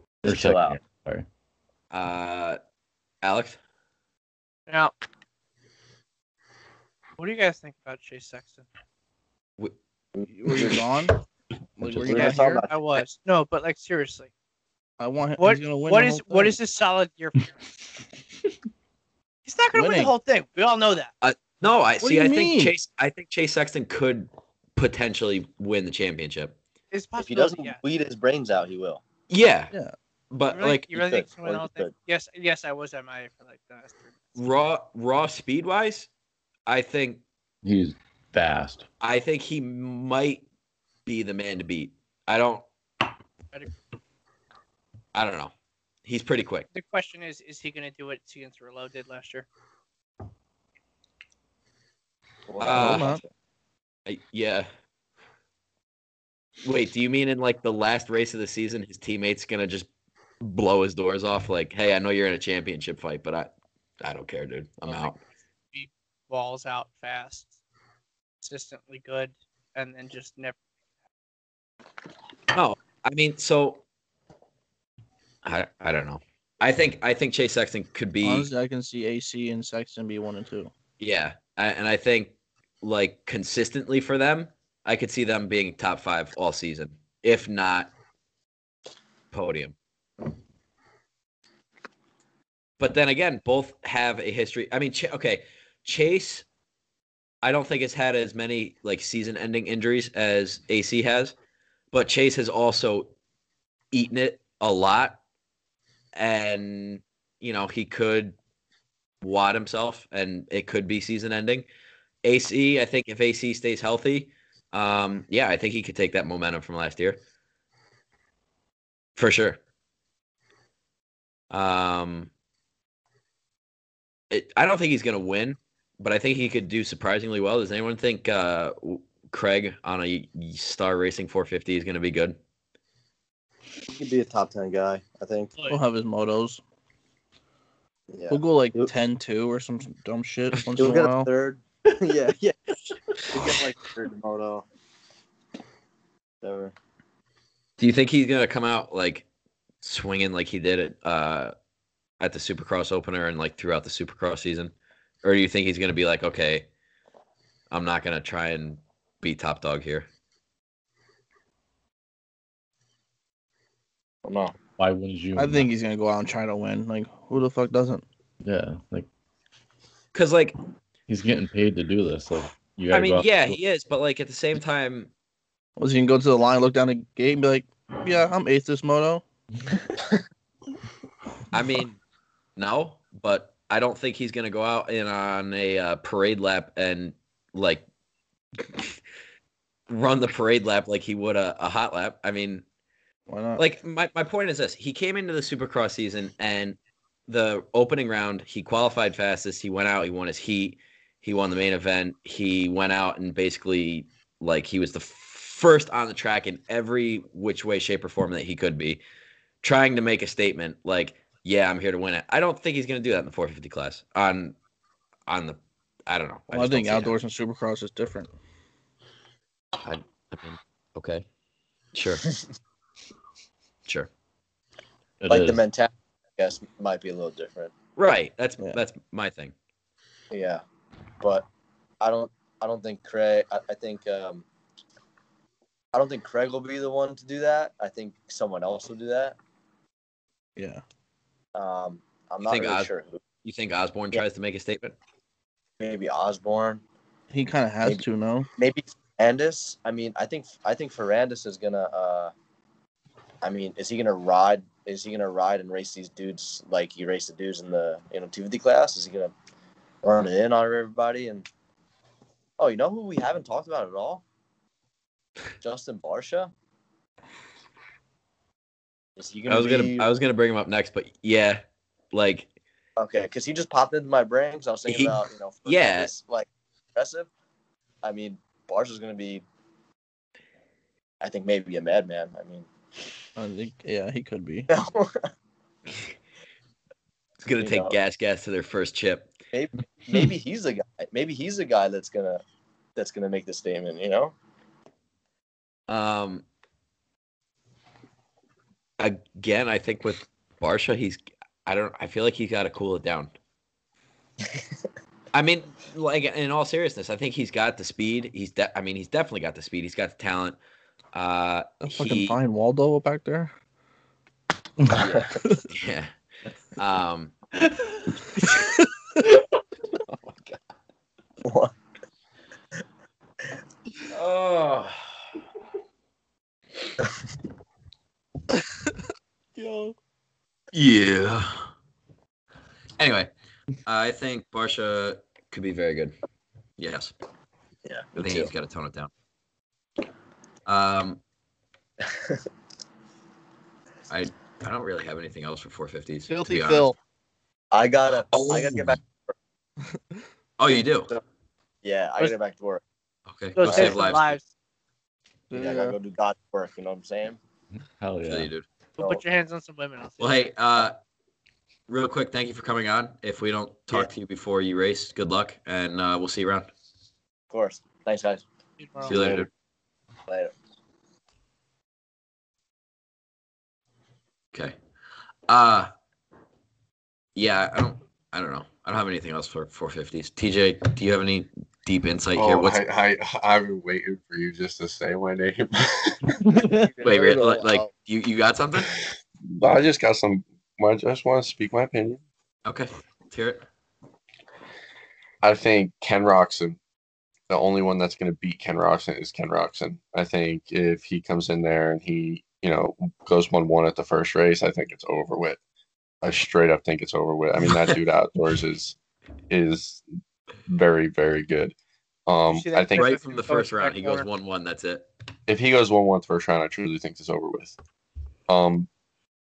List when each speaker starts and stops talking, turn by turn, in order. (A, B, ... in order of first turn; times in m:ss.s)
0:00.2-0:00.8 A
0:00.2-0:01.3 B
0:01.9-0:02.6 C
0:03.2-0:03.6 C
0:04.7-0:04.9 D
0:07.2-0:08.7 D
0:10.2-0:10.8 A
0:10.3-0:11.2 E
0:11.8-0:12.6 E
0:12.0-0:12.8 A
0:12.1-0:14.3 D
0:15.0-0:16.6 E
0:15.4-0:17.5 D
0:19.5-0:21.1 D
0:19.7-0:20.1 E
0:21.2-0:26.6 C
0:22.0-0:22.8 E
0:26.9-0:27.8 D
0:27.2-0:29.0 A
0:29.3-0:29.7 C
0:30.3-0:30.9 C
0:30.5-0:34.4 D
0:30.9-0:31.9 A
0:34.4-0:36.1 C
0:36.7-0:37.2 C
0:37.6-0:38.9 B
0:39.0-0:40.4 C
0:41.1-0:42.7 C
0:45.1-0:45.5 C
0:46.0-0:46.7 C
0:46.7-0:49.5 D
0:52.5-0:53.3 A
0:52.6-0:53.1 C
0:52.7-0:53.2 E
0:54.1-0:54.7 C
0:56.6-0:59.9 C
1:00.4-1:03.5 C
1:04.0-1:05.2 C
1:04.9-1:05.2 D
1:05.7-1:07.6 D
1:08.4-1:10.6 D
1:12.5-1:13.8 C
1:15.4-1:18.5 C
1:18.2-1:20.7 E
1:21.0-1:27.9 C
1:29.3-1:29.8 C
1:32.8-1:36.4 C
1:37.4-1:41.4 C
1:41.9-1:43.1 C
1:43.9-1:45.2 C
1:46.2-1:48.4 C
1:49.2-1:51.7 C
1:52.2-1:57.2 C
1:59.2-1:59.6 C
2:01.5-2:02.3 C
2:04.3-2:12.4 C
2:13.9-2:15.5 A
2:15.7-2:16.6 E
2:18.1-2:18.9 A
2:18.3-2:21.3 E
2:20.8-2:22.6 A
2:23.3-2:24.7 A
2:26.4-2:26.7 A
2:27.8-2:29.3 C
2:29.8-2:31.5 C
2:32.2-2:36.7 C
2:37.7-2:40.1 C
2:44.2-2:44.6 A
2:44.8-2:45.7 B
2:45.4-2:48.0 E
2:48.4-2:49.1 B
2:50.1-2:50.6 C
2:51.1-2:53.6 B
2:52.9-2:55.1 C
2:55.8-2:59.2 E
3:01.5-3:02.0 C
3:02.6-3:07.8 C
3:09.9-3:12.6 C
3:13.3-3:13.6 E
3:13.6-3:29.0 C
3:29.6-3:34.6 C
3:35.3-3:37.2 C
3:36.5-3:38.3 E
3:39.8-3:41.3 C
3:41.9-3:42.3 C
3:45.2-3:45.6 B
3:45.3-3:47.7 A
3:48.0-3:49.5 C
3:50.3-3:50.6 A
3:51.2-3:51.5 A
3:52.0-3:54.4 A
3:55.9-3:59.4 A
4:01.6-4:03.2 A
4:02.4-4:02.9 C
4:03.4-4:05.0 C
4:05.8-4:06.8 A
4:07.3-4:08.5 E
4:08.6-4:12.3 A
4:13.4-4:19.3 A
4:20.0-4:21.5 A
4:22.6-4:24.2 A
4:25.6-4:26.5 A
4:29.2-4:30.1 A
4:29.5-4:32.5 C
4:33.0-4:37.3 A
4:34.9-4:36.1 C
4:38.0-4:39.4 A
4:41.2-4:42.7 A
4:43.4-4:44.7 E
4:44.7-4:45.3 A
4:47.4-4:49.3 C
4:47.6-4:48.0 A
4:49.5-4:52.4 A
4:53.0-4:54.3 A
4:55.9-4:56.4 C
4:59.0-5:03.3 C
5:05.3-5:10.6 C
5:11.1-5:12.4 C
5:11.8-5:13.5 E
5:14.8-5:15.6 E
5:14.9-5:16.1 C
5:14.9-5:15.3 A
5:16.8-5:17.4 C
5:21.4-5:21.7 A
5:24.1-5:25.0 C
5:29.6-5:30.0 E
5:30.7-5:31.7 C
5:33.0-5:33.3 C
5:33.8-5:36.2 C
5:36.8-5:37.1 C
5:37.8-5:38.5 A
5:38.2-5:39.1 C
5:40.7-5:41.2 C
5:42.1-5:42.4 A
5:44.1-5:46.9 C
5:46.3-5:47.0 E
5:47.7-5:49.3 A
5:48.3-5:48.9 C
5:50.6-5:51.1 C
5:51.8-5:52.8 A
5:53.3-5:54.4 C
5:53.6-5:54.5 D
5:53.6-5:54.0 A
5:55.5-5:56.0 E
5:55.5-5:57.4 A
5:58.0-5:58.5 B
5:58.2-5:58.6 C
5:59.0-6:00.4 D
6:00.2-6:01.0 C
6:01.9-6:06.7 C
6:07.5-6:08.4 A
6:08.8-6:09.2 D
6:09.0-6:09.5 A
6:09.0-6:09.5 C
6:10.3-6:10.5 A
6:15.5-6:15.9 C
6:17.4-6:22.8 C
6:22.4-6:26.4 F
6:26.8-6:27.9 A
6:27.0-6:29.0 C
6:29.6-6:32.2 F
6:32.7-6:33.6 C
6:35.4-6:36.8 F
6:37.5-6:45.6 F
6:46.2-6:49.0 F
6:49.5-6:50.0 F
6:50.7-6:51.8 F
6:52.3-6:53.1 F
6:52.5-6:54.3 D
6:53.0-6:55.1 C
6:55.5-6:57.8 F
6:58.5-6:58.9 F